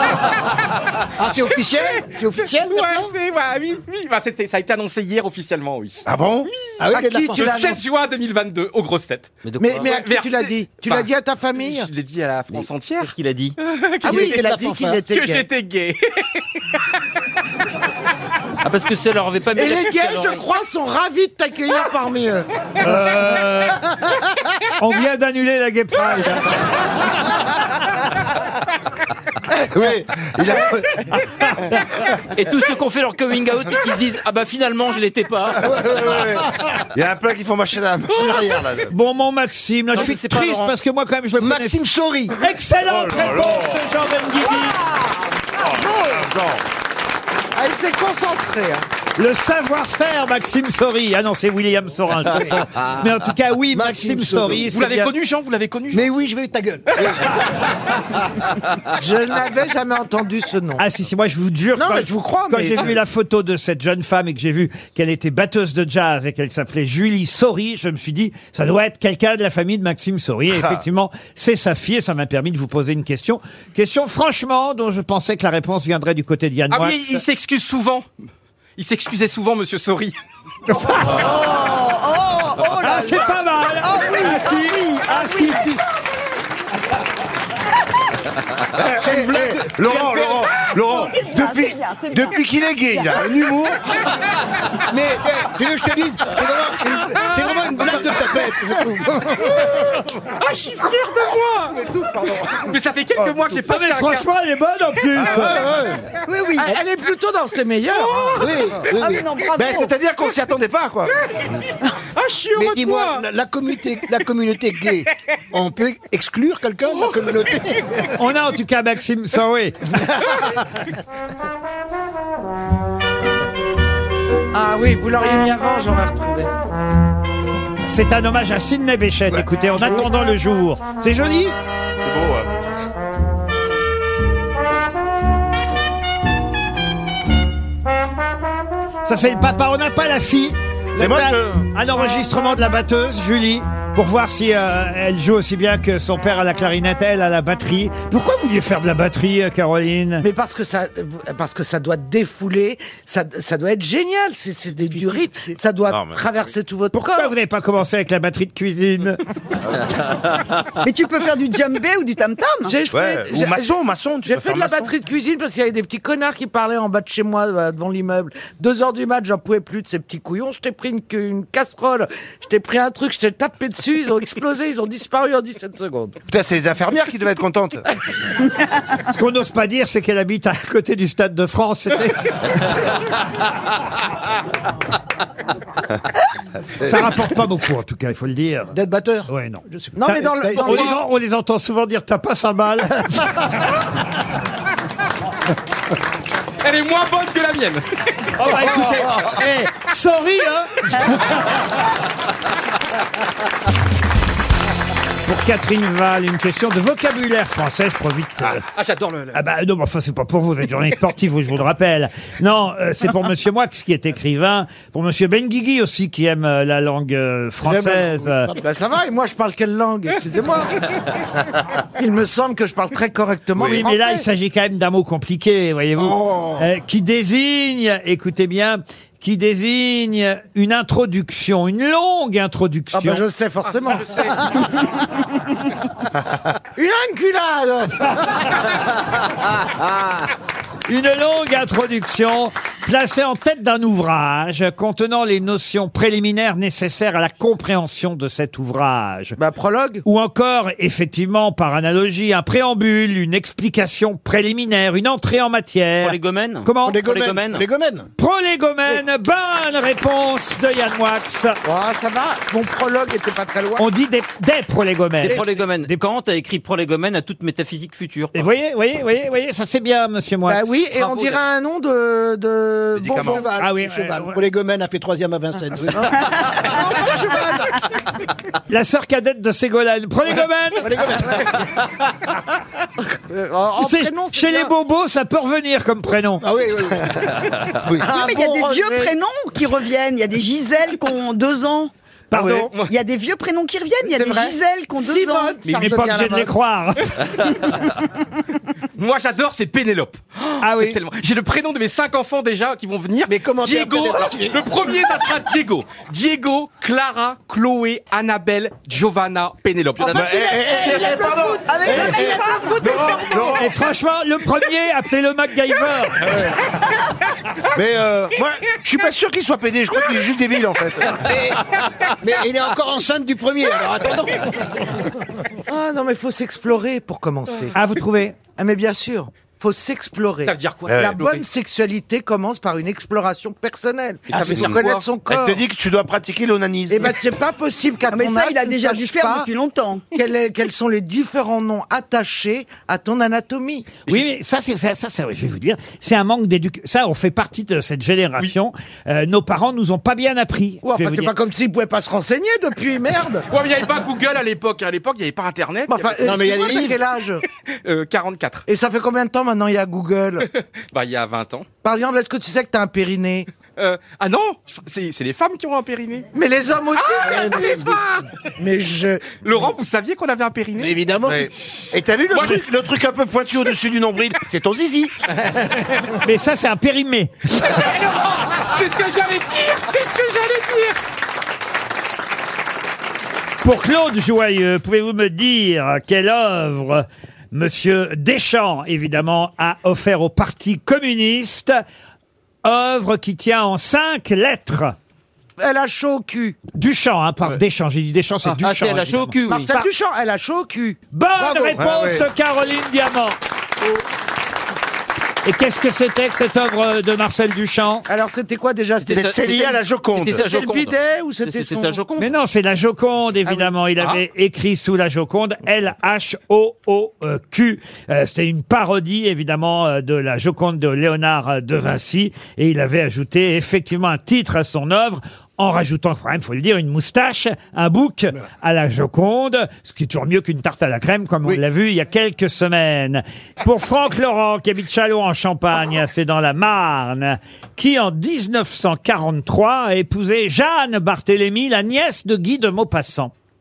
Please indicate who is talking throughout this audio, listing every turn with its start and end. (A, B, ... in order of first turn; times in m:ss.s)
0:01.2-0:03.1 A
0:02.6-0:06.0 B
0:06.0-0:06.5 C
0:06.8-0:07.6 A
0:06.9-0:07.8 D
0:07.3-0:14.5 B
0:09.4-0:09.9 E
0:09.6-0:11.9 D
0:13.0-0:13.6 E
0:14.0-0:15.4 D
0:14.0-0:15.0 A
0:15.1-0:16.3 B
0:18.6-0:20.4 E
0:19.5-0:22.5 D
0:22.8-0:23.8 F
0:24.8-0:26.8 F
0:29.7-0:31.0 C
0:31.1-0:31.8 F
0:32.3-0:36.1 E
0:35.7-0:38.9 C
0:38.9-0:41.8 F
0:39.9-0:40.7 E
0:41.4-0:42.4 A
0:42.4-0:44.8 F
0:42.8-0:43.8 C
0:44.8-0:45.2 D
0:45.6-0:46.6 C
0:45.8-0:46.2 D
0:47.5-0:48.8 D
0:49.2-0:55.1 F
0:53.7-0:54.6 A
0:54.6-0:56.1 B
0:55.9-0:57.2 A
0:58.9-1:00.8 D
1:00.8-1:17.2 F
1:01.8-1:02.9 D
1:16.7-1:18.1 B
1:18.8-1:20.2 B
1:20.7-1:21.4 F
1:21.0-1:25.8 G
1:22.8-1:25.8 F
1:22.8-1:23.2 D
1:28.7-1:33.8 C
1:28.9-1:30.7 A
1:30.8-1:33.4 G
1:34.9-1:39.7 A
1:40.4-1:41.8 B
1:42.6-1:44.3 B
1:43.7-1:45.6 F
1:45.1-1:45.9 C
1:45.3-1:46.0 A
1:46.3-1:46.7 G
1:46.6-1:48.8 D
1:48.3-1:49.3 A
1:48.9-1:49.9 G
1:49.5-1:51.2 C
1:52.1-1:53.2 B
1:52.5-1:58.0 A
1:58.1-2:00.2 F
2:04.5-2:06.6 D
2:07.8-2:11.5 F
2:09.8-2:10.0 A
2:12.0-2:12.5 C
2:19.0-2:30.2 F
2:21.0-2:21.6 C
2:30.2-2:37.3 D
2:34.9-2:35.6 A
2:35.9-2:36.2 C
2:36.9-2:39.2 F
2:40.8-2:42.7 G
2:42.7-2:43.7 D
2:42.9-2:44.9 C
2:44.2-2:56.2 D
2:56.3-2:57.8 C
2:59.1-3:03.0 F
3:06.8-3:08.8 F
3:08.7-3:10.9 A
3:09.3-3:13.5 F
3:09.9-3:11.0 D
3:16.6-3:18.9 B
3:18.4-3:21.4 F
3:25.2-3:28.6 F
3:28.7-3:29.4 B
3:29.3-3:38.5 F
3:37.6-3:38.6 A
3:38.6-3:40.7 D
3:42.0-3:44.2 D
3:43.6-3:53.2 F
3:52.9-3:54.7 D
3:53.7-3:54.4 B
3:56.8-3:58.4 D
4:00.9-4:09.4 F
4:09.4-4:10.0 D
4:10.0-4:17.0 F
4:16.0-4:17.7 E
4:16.8-4:18.1 A
4:18.2-4:21.6 F
4:21.6-4:23.8 D
4:23.8-4:26.0 F
4:25.2-4:28.4 E
4:28.3-4:30.7 F
4:30.4-4:33.5 D
4:33.0-4:33.5 C
4:33.2-4:36.3 A
4:33.6-4:34.4 F
4:35.9-4:37.8 D
4:38.7-4:41.1 F
4:40.8-4:41.6 A
4:43.2-4:44.7 D
4:43.7-4:46.4 F
4:46.4-4:47.4 A
4:48.0-4:49.1 D
4:48.0-4:51.9 G
4:52.3-4:52.7 F
4:52.8-4:55.8 G
4:54.0-4:56.5 D
4:55.7-4:57.6 F
4:59.0-5:10.4 B
5:00.6-5:01.0 F
5:03.3-5:04.7 A
5:10.0-5:13.5 D
5:10.1-5:13.7 C
5:10.3-5:13.5 G
5:13.5-5:16.4 F
5:16.2-5:16.6 C
5:17.7-5:21.3 C
5:21.2-5:21.6 A
5:22.2-5:25.1 A
5:25.6-5:27.8 D
5:27.7-5:28.4 F
5:28.6-5:35.6 D
5:30.4-5:31.4 B
5:30.9-5:31.2 C
5:34.3-5:34.8 A
5:34.3-5:35.0 B
5:35.3-5:37.2 C
5:36.9-5:39.5 D
5:38.1-5:40.0 G
5:40.1-5:43.9 D
5:44.1-5:51.3 F
5:50.8-5:53.5 D
5:53.5-5:56.7 B
5:55.9-5:57.4 D
5:56.2-5:57.0 A
5:57.8-5:58.6 B
5:58.7-6:00.4 D
6:00.9-6:01.7 B
6:01.8-6:03.5 D
6:03.8-6:06.3 B
6:06.3-6:09.4 D
6:07.0-6:07.8 B
6:07.2-6:08.0 A
6:09.4-6:11.0 B
6:10.8-6:11.5 A
6:11.2-6:15.1 C
6:12.3-6:12.6 B
6:16.2-6:17.3 F
6:17.6-6:21.0 B
6:23.6-6:31.8 F
6:32.6-6:35.0 F
6:35.6-6:36.6 D
6:36.7-6:39.8 F
6:38.4-6:39.8 E
6:39.5-6:41.8 D
6:41.1-6:43.4 F
6:41.8-6:42.2 C
6:45.4-6:48.1 F
6:48.1-6:49.8 D
6:49.0-6:52.3 E
6:49.1-6:50.4 C
6:50.4-6:52.0 D
6:52.2-7:23.3 F